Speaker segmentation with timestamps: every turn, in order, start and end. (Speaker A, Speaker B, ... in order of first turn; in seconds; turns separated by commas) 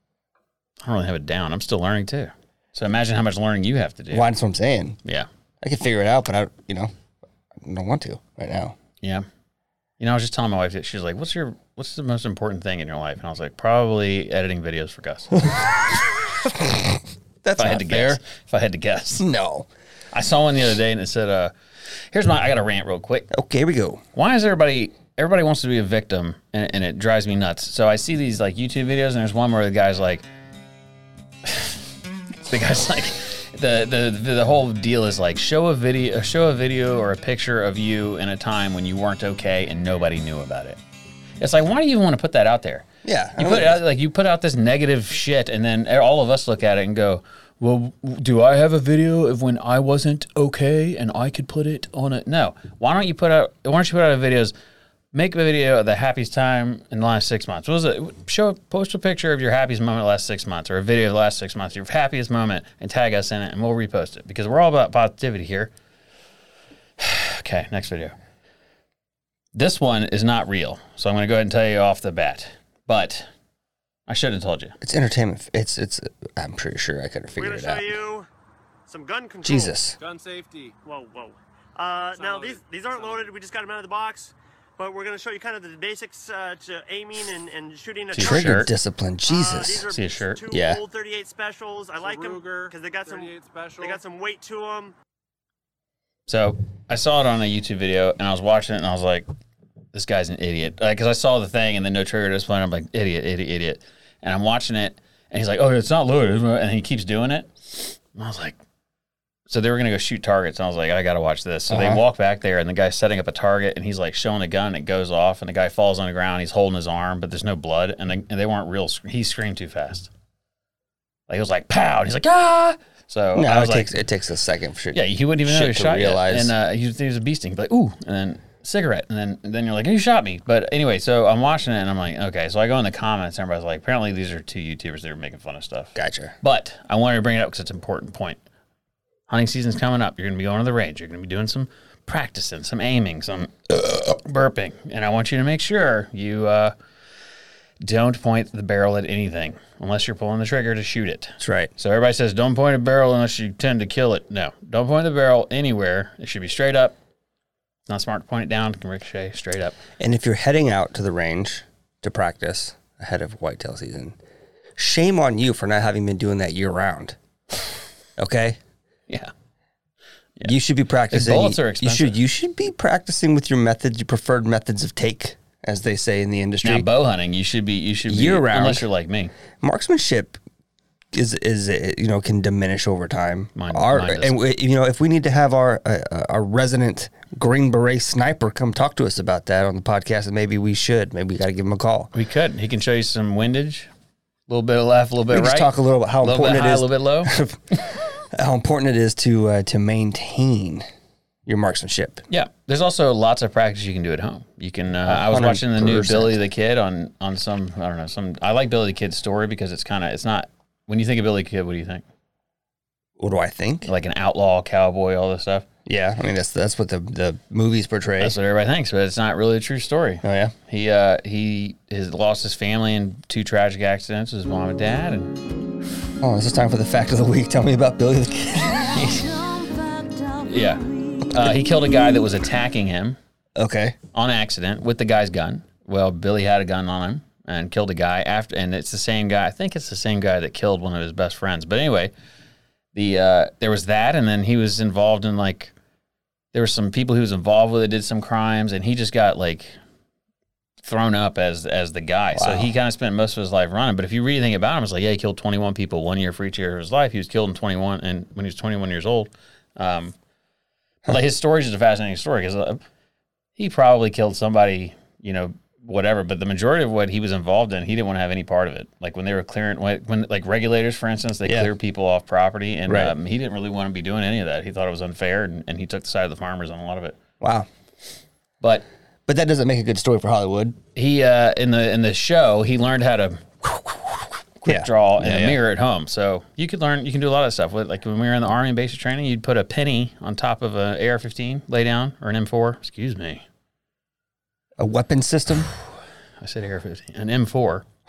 Speaker A: 0.8-4.3, Speaker B: 4.1-5.0, Speaker B: 5.6-6.9, Speaker B: 7.6-8.8, Speaker A: 10.0-15.6, Speaker B: 17.4-18.2, Speaker A: 17.6-19.3, Speaker B: 19.2-19.7, Speaker A: 20.1-21.5, Speaker A: 22.1-23.3, Speaker B: 23.3-24.0, Speaker A: 24.1-30.2, Speaker A: 31.4-31.8, Speaker A: 32.5-40.8, Speaker A: 41.4-42.9, Speaker B: 43.0-43.8, Speaker A: 43.4-54.5, Speaker A: 55.1-65.7, Speaker A: 67.0-68.2, Speaker A: 69.5-73.3, Speaker A: 74.1-74.8, Speaker B: 74.8-78.0, Speaker C: 77.4-78.3, Speaker C: 78.9-79.8, Speaker B: 79.4-80.0, Speaker D: 80.0-80.8, Speaker C: 80.8-88.7, Speaker D: 82.2-83.3, Speaker A: 88.1-88.7, Speaker B: 88.2-89.9, Speaker C: 89.3-95.0, Speaker A: 89.9-90.4, Speaker B: 90.5-90.8, Speaker D: 92.0-94.0, Speaker A: 96.3-99.3, Speaker A: 99.9-108.6, Speaker A: 109.5-120.1, Speaker B: 111.7-112.0, Speaker A: 121.3-123.9, Speaker B: 123.3-126.5, Speaker A: 124.9-138.4, Speaker B: 136.0-136.4, Speaker A: 139.3-146.7, Speaker A: 147.8-156.9, Speaker B: 151.4-151.7, Speaker A: 157.9-159.8, Speaker B: 160.0-164.2, Speaker B: 164.8-167.2, Speaker B: 168.2-168.6, Speaker B: 170.4-176.9, Speaker A: 171.1-172.2, Speaker A: 176.6-179.3, Speaker B: 178.1-178.8, Speaker B: 179.6-180.4, Speaker B: 181.1-192.1, Speaker A: 183.6-184.4, Speaker A: 192.1-193.9, Speaker A: 194.5-195.7, Speaker B: 195.3-200.9, Speaker A: 196.2-197.4, Speaker B: 201.5-202.2, Speaker A: 202.3-212.0, Speaker B: 205.0-206.4, Speaker B: 213.2-213.9, Speaker A: 213.9-215.7, Speaker B: 215.9-218.4, Speaker A: 218.2-225.4, Speaker B: 220.2-220.6, Speaker B: 226.2-229.3, Speaker A: 229.0-233.2, Speaker B: 233.6-234.0, Speaker A: 234.1-242.1, Speaker A: 242.9-245.7, Speaker A: 246.5-249.7, Speaker A: 250.8-260.1, Speaker B: 252.3-252.7, Speaker A: 261.1-262.8, Speaker A: 263.6-277.2, Speaker B: 271.4-271.7, Speaker B: 272.9-273.1, Speaker B: 277.4-277.7, Speaker B: 279.3-280.8, Speaker A: 280.9-293.4, Speaker B: 284.7-285.6, Speaker B: 294.8-295.7, Speaker A: 296.4-297.9